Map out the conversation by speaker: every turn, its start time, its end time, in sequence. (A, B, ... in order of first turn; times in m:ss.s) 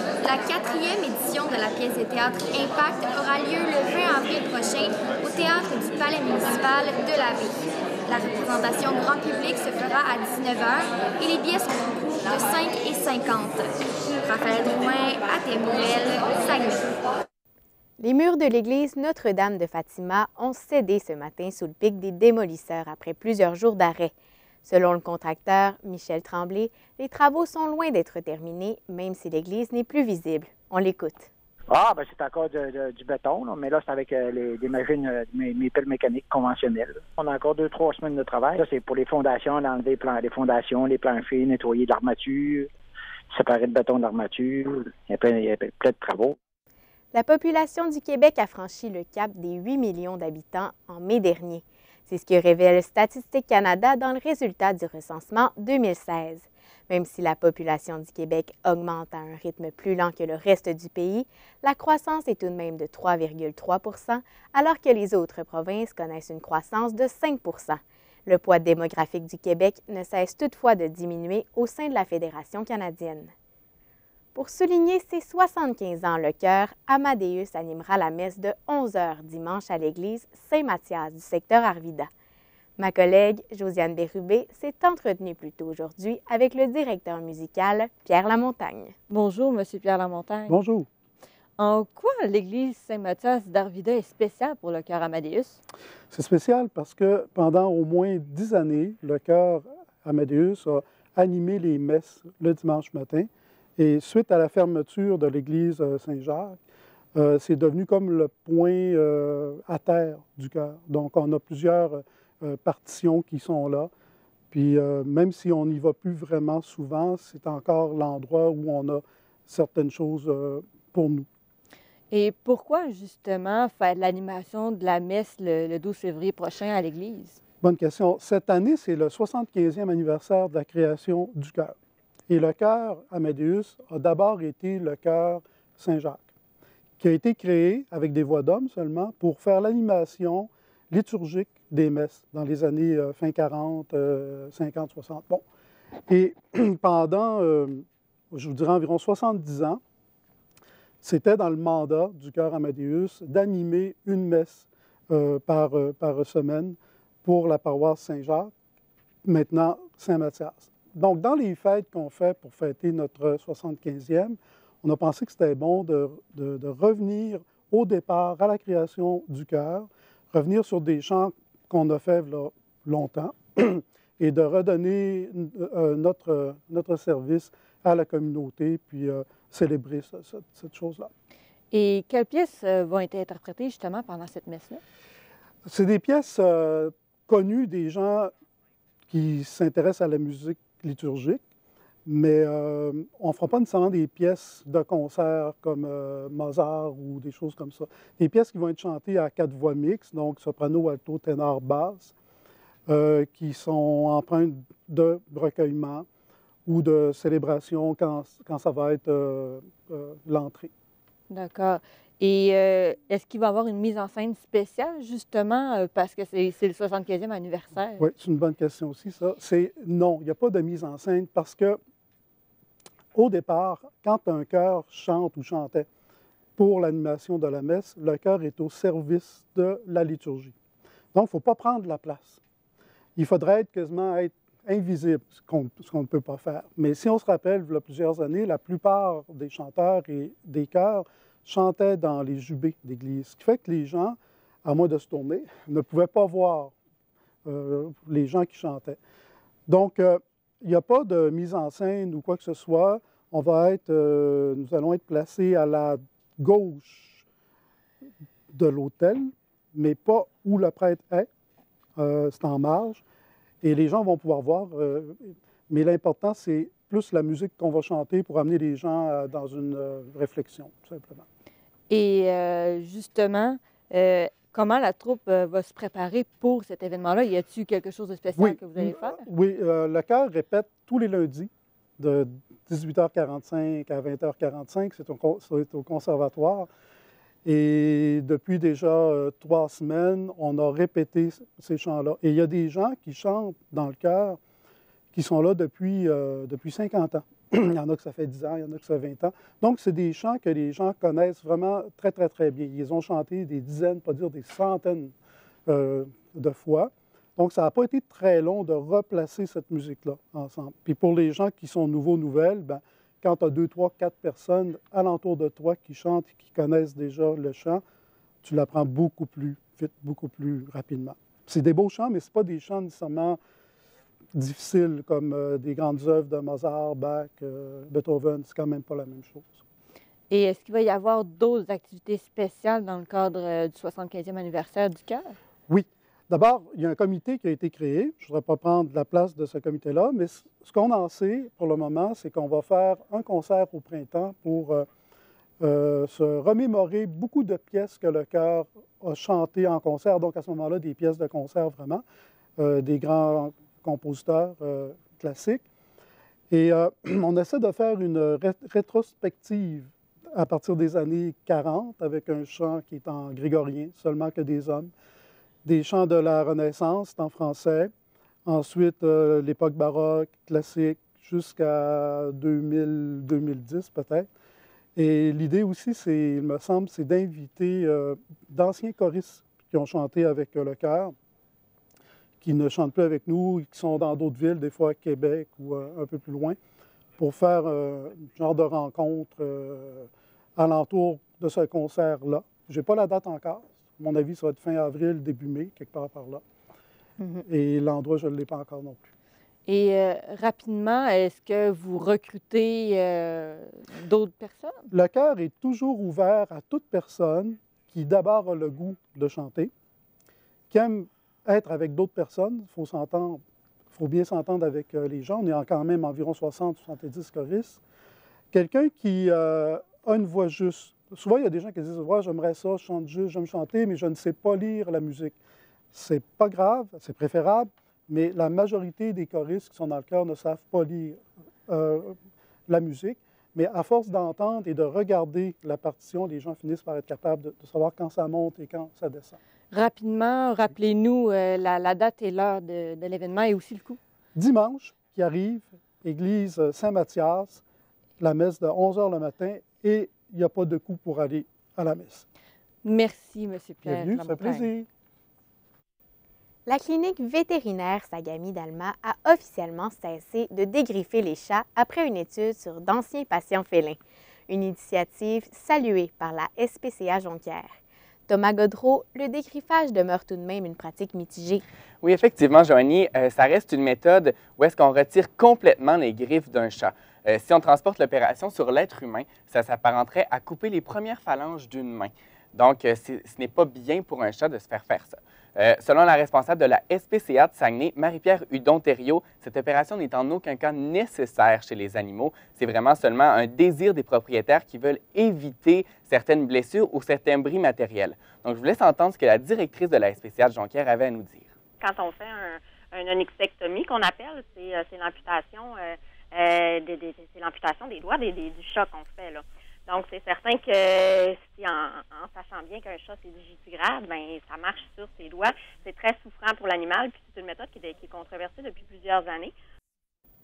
0:00.2-0:13.7 A
0:14.2-0:16.8 A
0:18.0-0:24.1 B
0:24.6-0:31.3 B
0:31.7-0:42.7 C
0:43.3-0:46.4 C
0:47.1-1:13.3 B
1:14.4-1:22.1 B
1:22.8-1:28.9 B
1:29.1-1:30.6 D
1:30.5-1:30.9 E
1:31.6-1:35.6 D
1:36.1-1:46.6 E
1:47.2-1:53.9 E
1:54.5-2:01.3 E
2:02.1-2:07.4 D
2:07.6-2:11.8 E
2:12.3-2:16.2 E
2:17.0-2:25.4 E
2:26.1-2:29.8 E
2:31.0-2:38.5 E
2:39.2-3:01.1 E
3:01.7-3:04.8 D
3:05.7-3:08.3 E
3:09.1-3:11.4 E
3:12.1-3:22.1 E
3:22.9-3:26.1 E
3:26.7-3:30.7 E
3:31.3-3:38.0 D
3:38.0-3:41.8 E
3:43.2-3:45.9 E
3:46.6-3:50.5 E
3:51.1-3:52.4 E
3:53.2-4:06.7 E
4:07.4-4:09.0 E
4:09.7-4:17.2 E
4:18.5-4:21.3 E
4:22.0-4:23.0 E
4:23.6-4:31.2 E
4:31.9-4:39.2 D
4:38.4-4:46.7 E
4:47.4-4:54.4 E
4:55.1-5:05.1 E
5:05.7-5:17.8 E
5:18.4-5:23.4 E
5:24.3-5:29.6 E
5:30.3-5:35.4 D
5:35.7-5:44.9 E
5:45.6-5:52.0 E
5:52.6-5:55.6 E
5:56.5-6:04.9 E
6:05.6-6:07.9 E
6:08.5-6:14.3 E
6:15.0-6:21.1 E
6:22.4-6:26.6 E
6:27.2-6:36.4 E
6:37.4-6:39.1 E
6:39.7-6:44.9 D
6:44.9-6:49.7 E
6:50.7-6:53.4 E
6:53.9-6:57.8 E
6:58.5-7:05.4 E
7:05.9-7:12.2 E
7:12.7-7:19.4 E
7:19.7-7:24.0 D
7:24.4-7:27.6 E
7:28.2-7:32.3 E
7:32.8-7:34.7 D
7:33.8-7:34.9 E
7:36.7-7:47.8 B
7:48.3-7:51.6 B
7:52.0-8:21.5 F
8:21.8-8:39.5 G